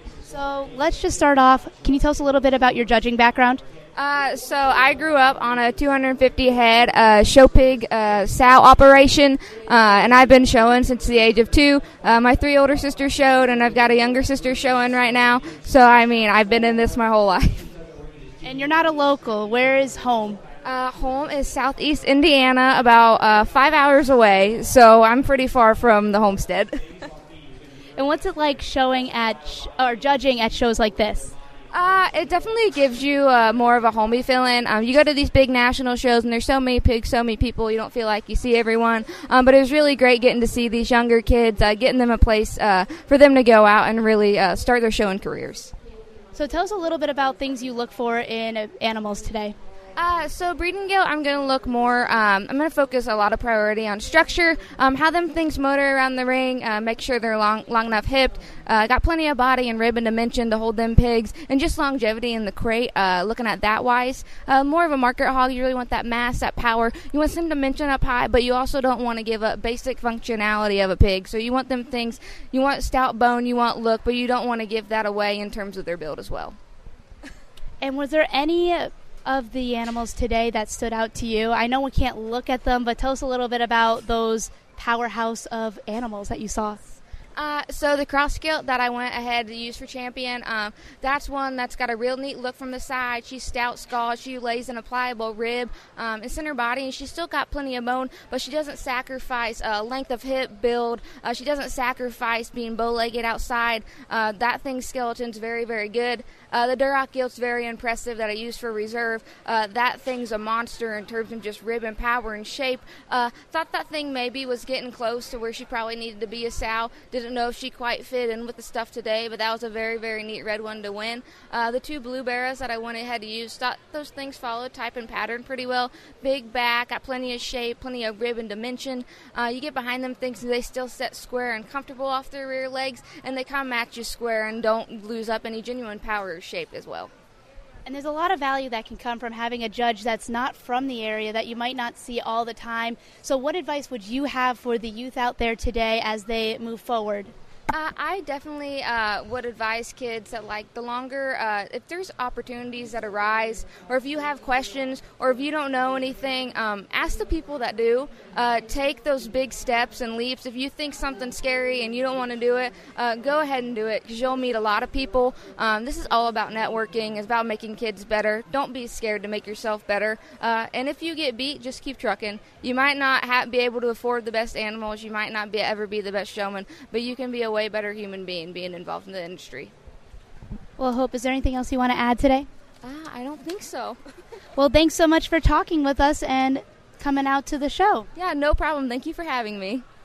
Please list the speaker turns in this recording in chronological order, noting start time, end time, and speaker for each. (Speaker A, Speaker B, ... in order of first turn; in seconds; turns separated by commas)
Speaker A: 0.3-3.6, Speaker B: 4.0-17.7, Speaker A: 18.4-20.4, Speaker B: 20.6-26.9, Speaker A: 28.0-31.4, Speaker B: 31.7-45.7, Speaker A: 46.4-49.5, Speaker B: 50.0-76.6, Speaker A: 77.8-86.8, Speaker B: 87.4-137.1, Speaker A: 137.9-147.3, Speaker B: 147.7-179.7, Speaker A: 180.8-182.5, Speaker B: 182.8-184.0, Speaker A: 184.6-188.1, Speaker B: 188.2-189.8